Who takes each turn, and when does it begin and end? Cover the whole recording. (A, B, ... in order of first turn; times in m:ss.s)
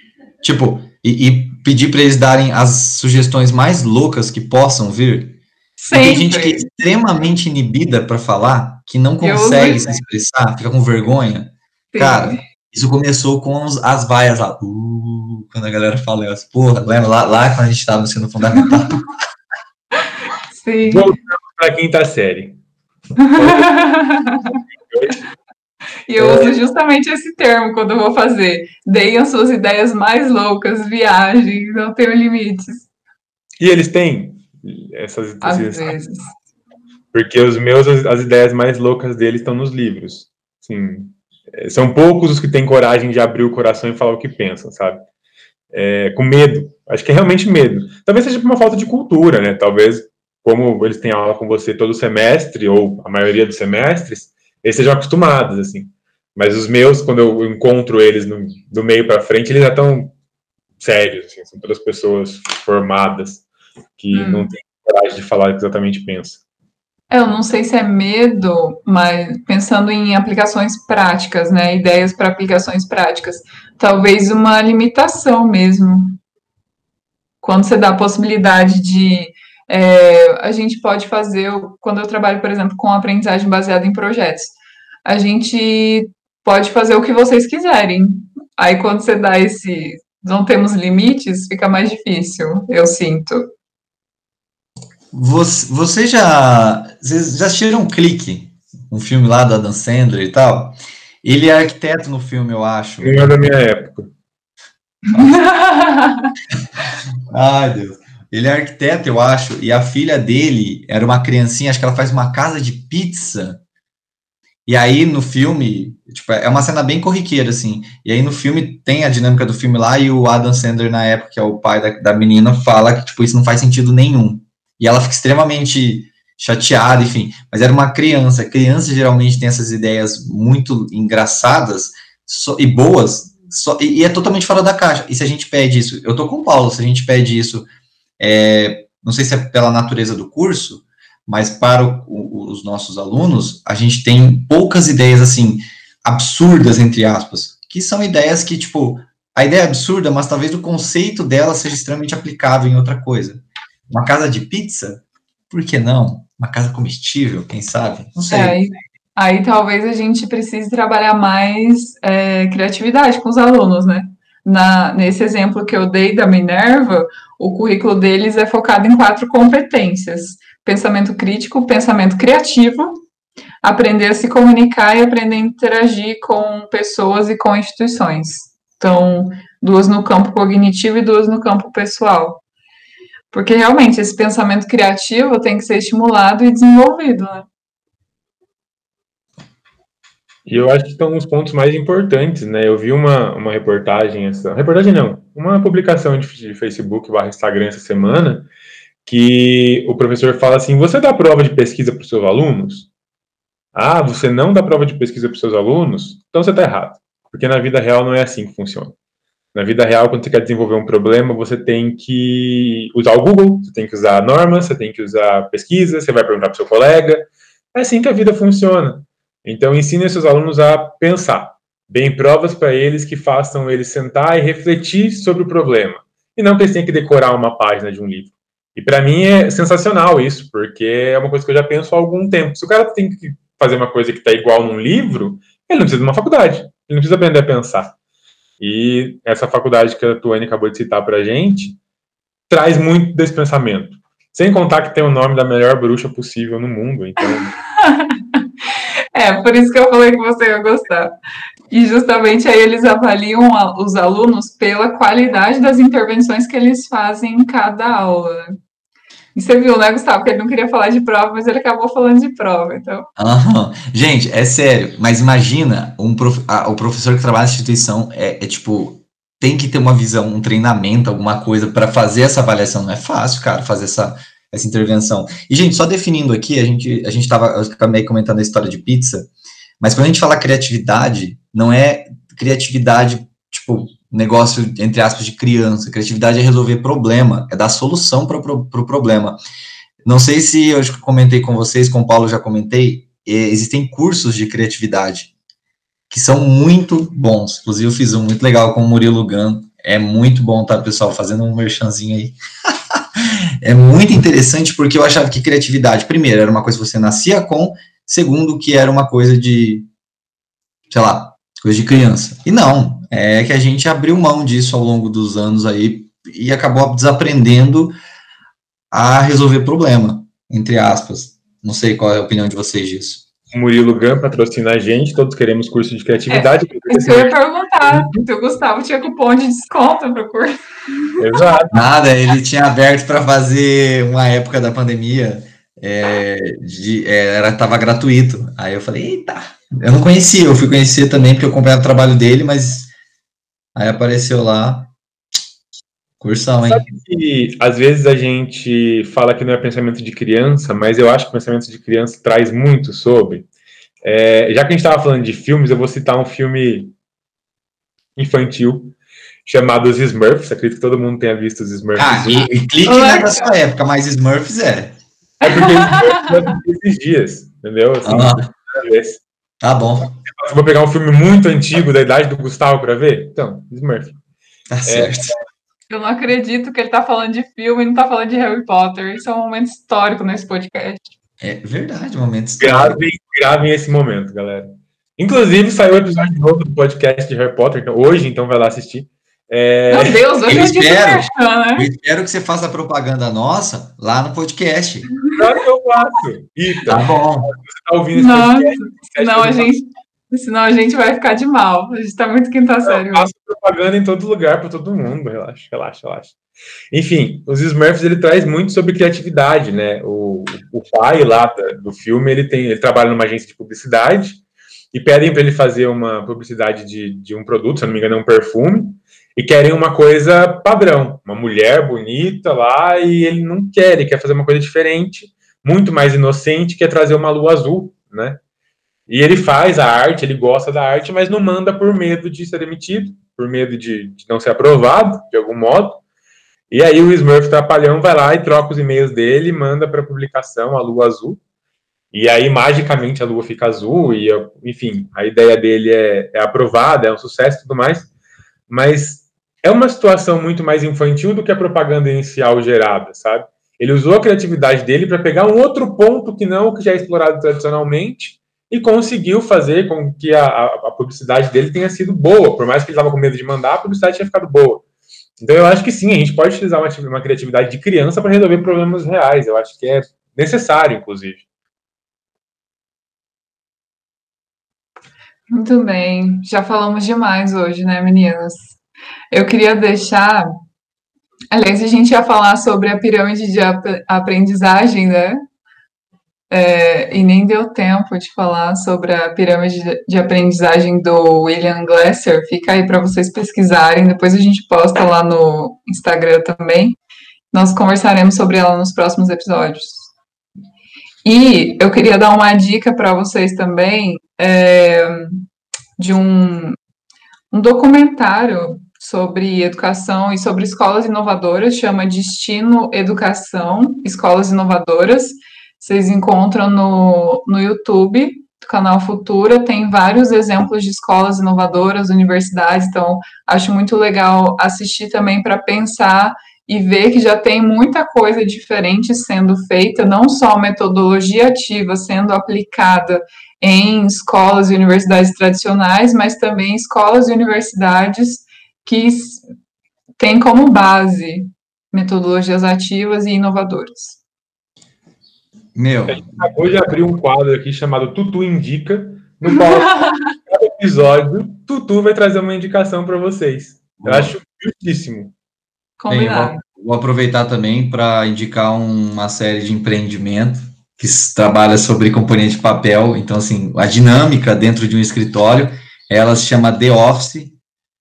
0:00.4-0:05.4 A
0:05.8-0:06.7 B
0:05.9-0:19.0 A
0:09.2-0:09.9 B
0:11.9-0:12.4 B
0:20.5-0:21.1 B
0:20.9-0:22.6 C
0:23.2-0:24.6 B
0:23.4-0:23.8 C
0:24.9-0:25.2 C
0:26.1-0:32.9 B
0:26.2-0:26.6 C
0:33.6-0:36.0 C
0:35.4-0:36.3 B
0:37.1-0:45.1 C
0:45.7-1:00.1 C
1:00.8-1:03.4 C
1:04.0-1:06.4 C
1:04.1-1:04.5 B
1:07.1-1:16.2 B
1:17.4-1:33.5 B
1:35.1-1:43.3 A
1:43.0-1:44.1 C
1:45.1-1:46.3 B
1:47.3-1:53.6 A
1:54.7-2:17.7 A
2:18.2-2:38.6 A
2:38.3-2:53.0 B
2:53.6-3:02.4 B
3:03.3-3:07.5 B
3:10.5-3:18.5 C
3:19.1-3:22.9 C
3:23.7-3:29.0 C
3:29.5-3:58.0 C
3:58.6-4:01.8 C
4:02.5-4:07.6 C
4:07.8-4:08.4 B
4:09.2-4:11.1 B
4:11.7-4:18.4 B
4:19.4-4:23.1 B
4:23.2-4:49.4 A
4:50.0-4:55.3 A
4:56.1-5:02.4 A
5:02.9-5:09.9 A
5:10.9-5:17.9 A
5:18.9-5:23.3 A
5:23.5-5:28.2 C
5:26.3-5:30.6 B
5:31.2-5:31.8 C
5:31.7-5:42.9 A
5:43.8-5:44.9 A
5:46.2-5:46.9 A
5:46.7-5:53.5 C
5:54.0-5:56.9 C
5:58.2-6:02.5 C
6:02.0-6:05.0 A
6:02.8-6:03.5 B
6:05.4-6:06.5 B
6:05.4-6:09.2 C
6:08.0-6:08.5 A
6:09.6-6:10.2 A
6:10.3-6:14.2 C
6:14.7-6:15.3 A
6:14.9-6:15.3 C
6:15.9-6:21.1 B
6:21.4-6:23.0 A
6:22.6-6:30.3 C
6:29.9-6:31.9 B
6:30.5-6:35.1 A
6:35.4-6:39.7 C
6:36.9-6:37.5 A
6:38.1-6:43.3 B
6:42.9-6:46.4 C
6:46.9-7:08.4 C
7:09.1-7:16.0 C
7:16.7-7:21.4 C
7:22.1-7:28.1 C
7:28.7-7:44.8 C
7:45.4-7:51.4 C
7:55.5-7:58.8 B
7:59.3-8:00.5 B
8:01.5-8:05.4 B
8:06.5-8:17.0 B
8:17.5-8:20.1 B
8:21.2-8:25.4 B
8:26.0-8:26.8 B
8:27.5-8:59.4 B
9:00.2-9:04.2 B
9:05.8-9:06.5 A
9:06.1-9:15.3 C
9:09.5-9:10.3 B
9:14.0-9:14.3 A
9:16.0-9:16.6 B
9:16.1-9:27.6 A